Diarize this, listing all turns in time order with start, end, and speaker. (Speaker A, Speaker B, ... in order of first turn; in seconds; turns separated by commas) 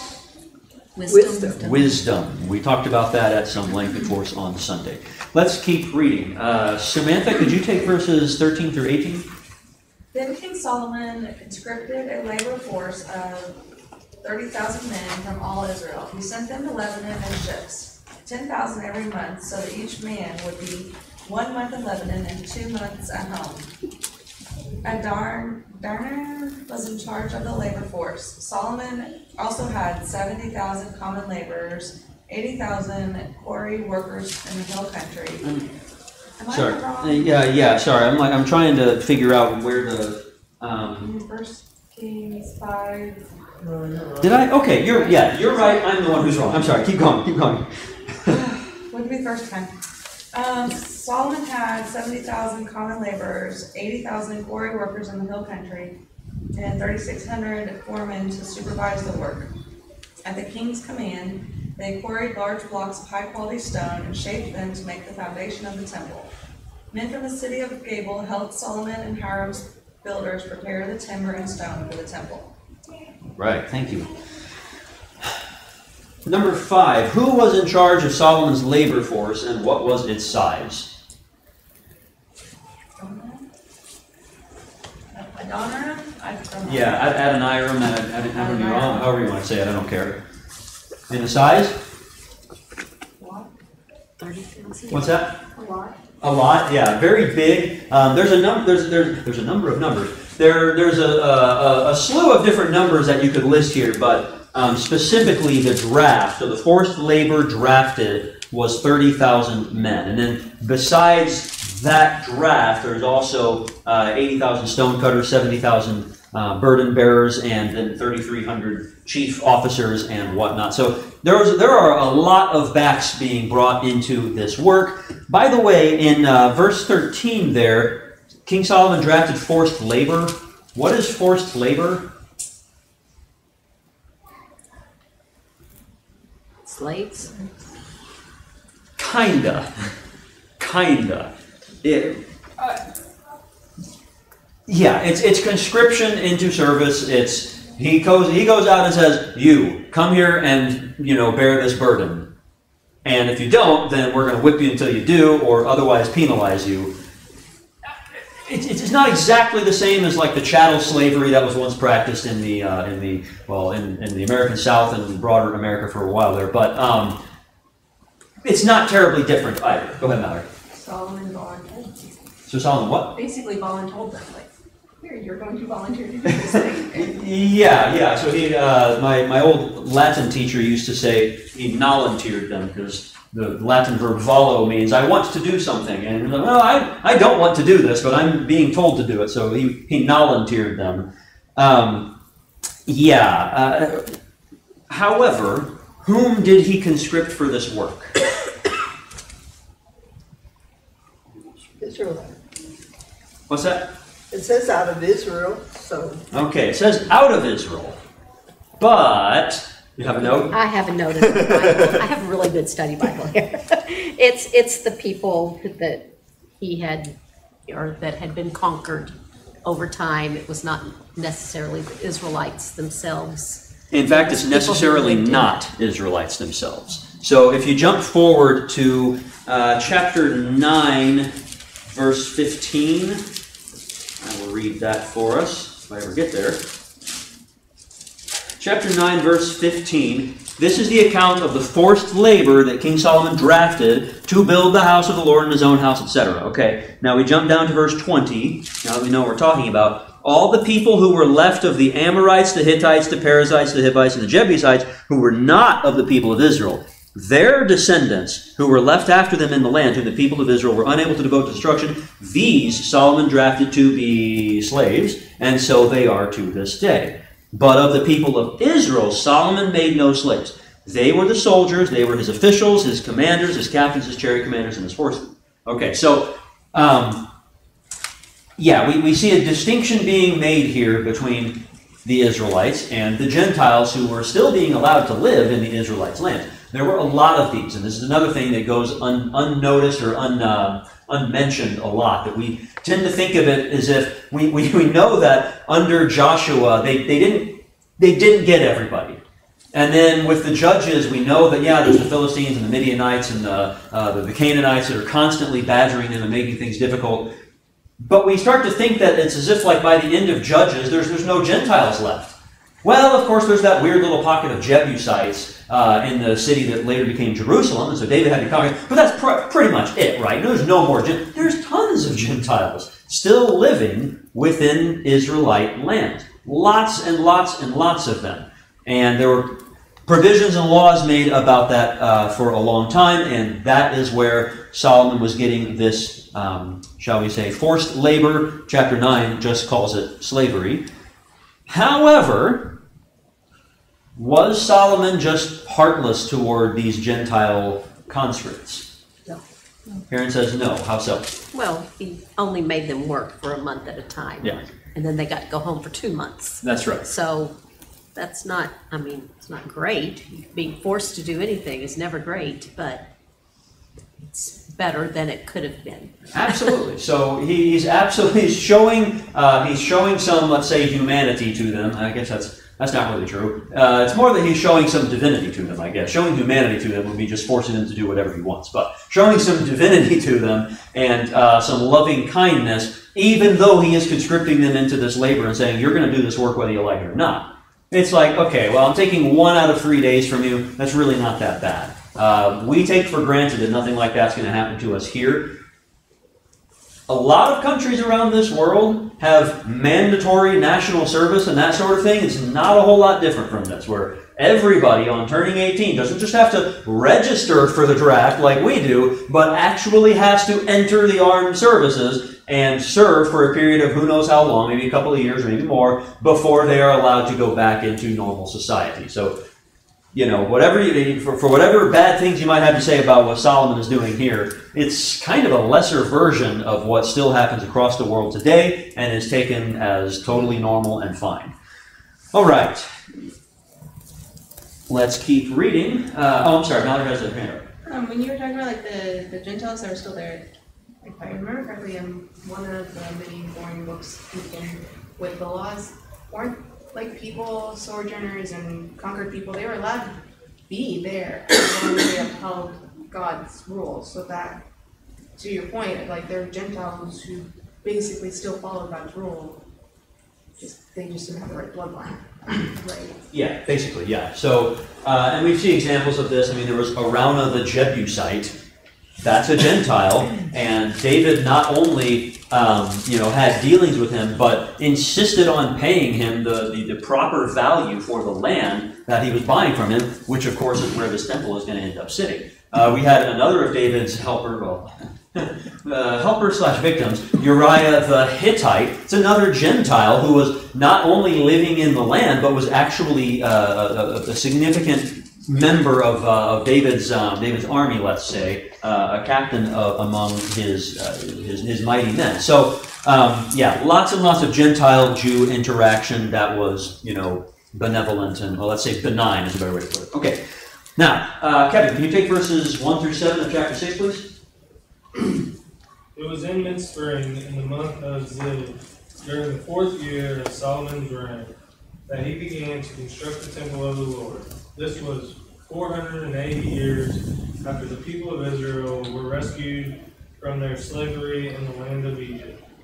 Speaker A: 0.9-1.8, Speaker B: 1.1-1.6, Speaker C: 1.6-9.3, Speaker D: 10.1-13.6, Speaker D: 14.2-23.6, Speaker D: 24.8-35.6, Speaker D: 36.4-37.4, Speaker C: 36.5-41.1, Speaker D: 41.0-43.2, Speaker E: 43.6-44.1, Speaker C: 44.2-48.4, Speaker D: 44.8-45.9, Speaker D: 48.3-49.7, Speaker D: 50.3-56.0, Speaker D: 56.5-59.5, Speaker D: 60.2-66.3, Speaker D: 66.9-72.5, Speaker C: 73.4-74.3, Speaker C: 76.2-80.9, Speaker D: 83.0-83.5, Speaker D: 85.1-87.2, Speaker C: 86.6-90.2, Speaker D: 88.3-89.1, Speaker C: 91.1-91.8, Speaker D: 93.2-93.5, Speaker A: 94.2-95.1, Speaker C: 94.9-95.4, Speaker F: 95.6-96.0, Speaker C: 96.2-132.1, Speaker A: 136.6-137.4, Speaker C: 139.0-139.9, Speaker C: 140.6-142.7, Speaker C: 144.7-152.3, Speaker C: 153.0-156.9, Speaker C: 158.3-167.2, Speaker C: 168.4-170.4, Speaker F: 170.7-172.2, Speaker C: 172.5-173.2, Speaker F: 173.1-177.1, Speaker C: 176.3-192.2, Speaker C: 192.8-194.1, Speaker C: 194.9-198.2, Speaker B: 201.6-202.3, Speaker C: 203.5-203.9, Speaker B: 204.3-206.2, Speaker C: 206.3-208.0, Speaker C: 208.8-210.5, Speaker A: 210.5-216.1, Speaker C: 211.2-211.8, Speaker A: 216.6-217.1, Speaker A: 217.7-225.6, Speaker C: 223.9-231.3, Speaker C: 231.8-233.2, Speaker C: 234.2-236.6, Speaker C: 238.6-277.3, Speaker C: 278.6-299.2, Speaker C: 299.7-307.3, Speaker C: 308.0-340.8, Speaker C: 341.7-342.8, Speaker C: 344.1-348.9, Speaker C: 350.1-351.3, Speaker A: 351.5-357.5, Speaker C: 356.6-357.1, Speaker A: 358.1-363.0, Speaker A: 364.3-366.5, Speaker C: 366.3-395.6, Speaker C: 397.1-419.4, Speaker C: 420.1-431.5, Speaker C: 432.3-432.9, Speaker C: 434.9-437.7, Speaker F: 437.9-440.5, Speaker F: 441.0-450.2, Speaker F: 450.7-454.6, Speaker F: 455.4-459.6, Speaker F: 460.6-463.2, Speaker C: 463.3-468.6, Speaker C: 469.2-510.4, Speaker C: 510.9-514.3, Speaker E: 516.1-521.5, Speaker E: 522.1-532.6